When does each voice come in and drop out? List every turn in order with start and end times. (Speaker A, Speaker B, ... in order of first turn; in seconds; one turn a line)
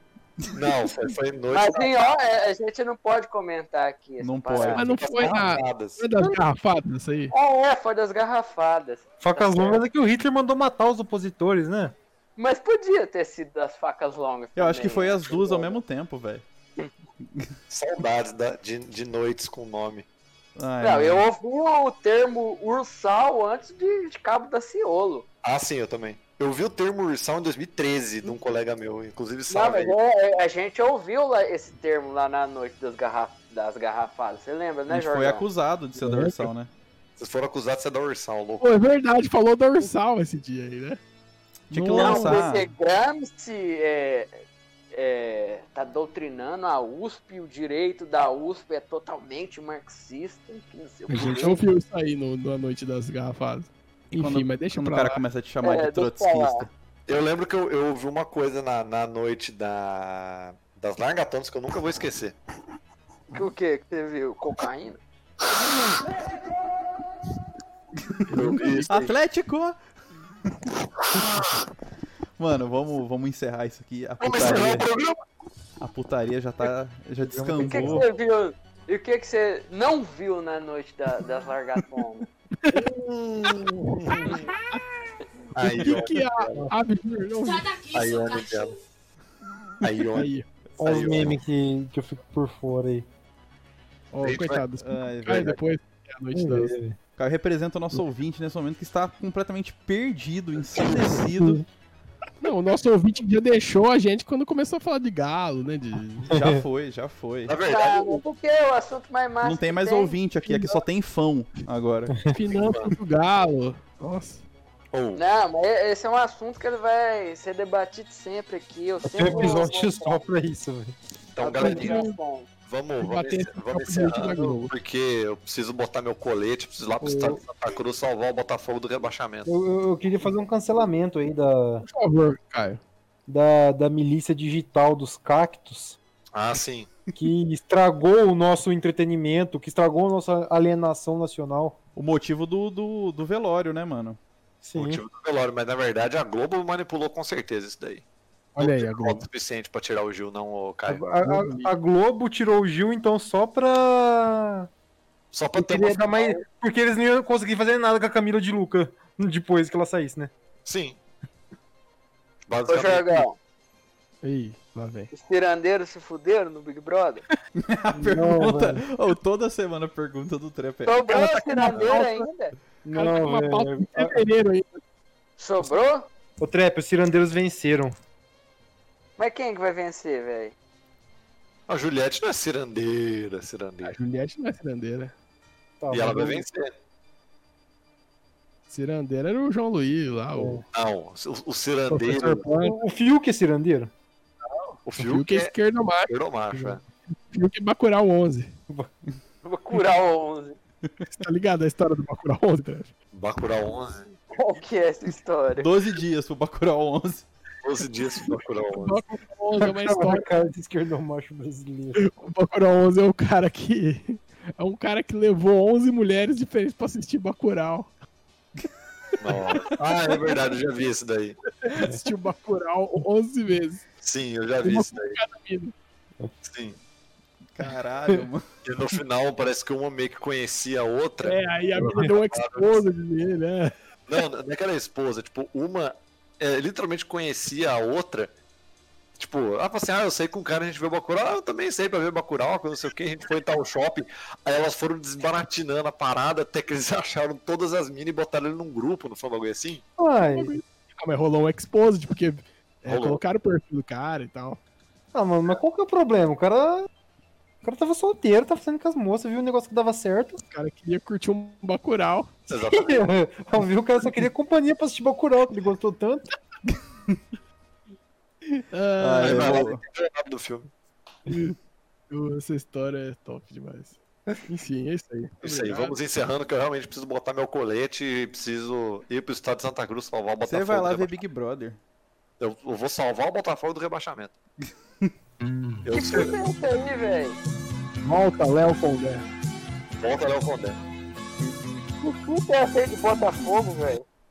Speaker A: 0.5-1.9
Speaker B: 1.5-5.0
Speaker C: 4.2-4.9
Speaker D: 4.7-7.3
Speaker A: 5.0-6.0
Speaker B: 7.3-9.8
Speaker E: 9.2-11.9
Speaker B: 12.4-15.8
Speaker C: 14.6-16.4
Speaker A: 17.7-20.1
Speaker C: 20.6-21.2
Speaker B: 20.8-25.2
Speaker A: 25.4-29.9
Speaker B: 29.5-35.4
Speaker C: 34.9-36.7
Speaker A: 37.2-38.6
Speaker D: 38.6-41.0
Speaker D: 41.7-42.4
Speaker C: 41.7-42.7
Speaker B: 41.9-44.4
Speaker B: 44.9-51.6
Speaker E: 51.1-51.4
Speaker D: 51.1-55.2
Speaker C: 54.1-56.7
Speaker B: 55.6-56.7
Speaker A: 57.1-62.4
Speaker B: 63.3-65.0
Speaker D: 68.3-68.9
Speaker A: 68.3-69.1
Speaker C: 68.9-69.8
Speaker A: 71.0-71.5
Speaker C: 72.4-74.9
Speaker A: 74.2-75.2
Speaker C: 75.8-78.0
Speaker E: 77.3-78.0
Speaker B: 77.6-82.3
Speaker A: 82.7-84.4
Speaker D: 83.5-84.8
Speaker A: 85.5-86.7
Speaker D: 85.6-87.9
Speaker A: 87.9-88.8
Speaker A: 89.8-90.3
Speaker D: 90.1-90.5
Speaker E: 90.8-93.1
Speaker A: 90.8-91.4
Speaker D: 94.1-96.7
Speaker A: 94.2-94.6
Speaker C: 94.8-95.6
Speaker E: 96.3-97.0
Speaker C: 97.2-101.6
Speaker E: 101.3-101.6
Speaker D: 102.4-106.3
Speaker E: 106.3-106.6
Speaker C: 106.3-107.5
Speaker A: 107.5-108.2
Speaker B: 107.7-110.2
Speaker C: 109.4-112.1
Speaker E: 112.1-112.3
Speaker D: 112.3-114.4
Speaker A: 112.4-112.9
Speaker A: 114.9-115.2
Speaker B: 115.1-120.2
Speaker E: 119.0-121.0
Speaker A: 121.3-122.1
Speaker B: 121.4-122.5
Speaker D: 121.6-122.1
Speaker A: 122.7-129.5
Speaker D: 123.0-124.7
Speaker E: 127.0-127.3
Speaker E: 129.5-131.8
Speaker D: 131.9-132.8
Speaker E: 133.3-136.0
Speaker A: 136.3-136.9
Speaker E: 137.2-141.8
Speaker C: 141.9-144.2
Speaker E: 144.6-145.0
Speaker A: 144.7-148.0
Speaker D: 148.5-149.2
Speaker A: 148.6-151.1
Speaker E: 150.9-154.7
Speaker D: 151.2-151.7
Speaker A: 155.3-156.4
Speaker E: 155.5-160.3
Speaker A: 160.7-161.0
Speaker A: 162.5-163.2
Speaker B: 162.7-163.4
Speaker D: 164.2-165.1
Speaker B: 165.1-167.2
Speaker C: 167.6-170.9
Speaker E: 167.9-168.8
Speaker B: 170.8-172.5
Speaker D: 171.1-172.3
Speaker E: 172.8-174.2
Speaker D: 172.9-174.8
Speaker B: 175.4-176.1
Speaker E: 176.4-177.9
Speaker B: 179.2-180.5
Speaker A: 181.7-184.0
Speaker D: 183.8-185.1
Speaker E: 185.8-186.4
Speaker A: 185.9-186.7
Speaker D: 188.7-190.6
Speaker E: 190.3-190.6
Speaker A: 190.7-192.5
Speaker D: 191.9-192.8
Speaker E: 192.5-193.9
Speaker D: 194.5-196.1
Speaker A: 194.8-195.5
Speaker A: 196.1-196.8
Speaker D: 197.3-198.5
Speaker B: 199.4-200.6
Speaker D: 201.1-202.9
Speaker A: 203.1-204.1
Speaker B: 204.3-205.7
Speaker C: 205.6-207.2
Speaker A: 207.6-209.0
Speaker D: 208.7-210.3
Speaker E: 209.6-212.0
Speaker D: 212.0-217.9
Speaker A: 219.2-221.4
Speaker D: 219.3-220.4
Speaker D: 221.6-223.8
Speaker A: 224.0-225.2
Speaker D: 224.6-225.7
Speaker A: 226.4-226.8
Speaker C: 227.5-228.5
Speaker A: 228.6-231.4
Speaker D: 231.2-233.7
Speaker A: 231.9-232.8
Speaker A: 234.1-238.3
Speaker A: 239.2-249.8
Speaker E: 250.0-250.5
Speaker D: 250.3-254.6
Speaker A: 252.9-253.2
Speaker E: 255.1-256.9
Speaker E: 257.6-260.4
Speaker D: 260.4-262.3
Speaker A: 262.5-263.1
Speaker E: 262.7-266.2
Speaker D: 268.5-269.7
Speaker C: 269.0-269.8
Speaker A: 269.2-270.7
Speaker D: 271.3-271.5
Speaker D: 272.1-275.9
Speaker A: 275.4-281.2
Speaker C: 280.4-281.8
Speaker A: 282.4-284.3
Speaker A: 285.9-286.4
Speaker B: 285.9-287.4
Speaker D: 288.0-289.2
Speaker A: 289.9-290.8
Speaker B: 292.0-294.0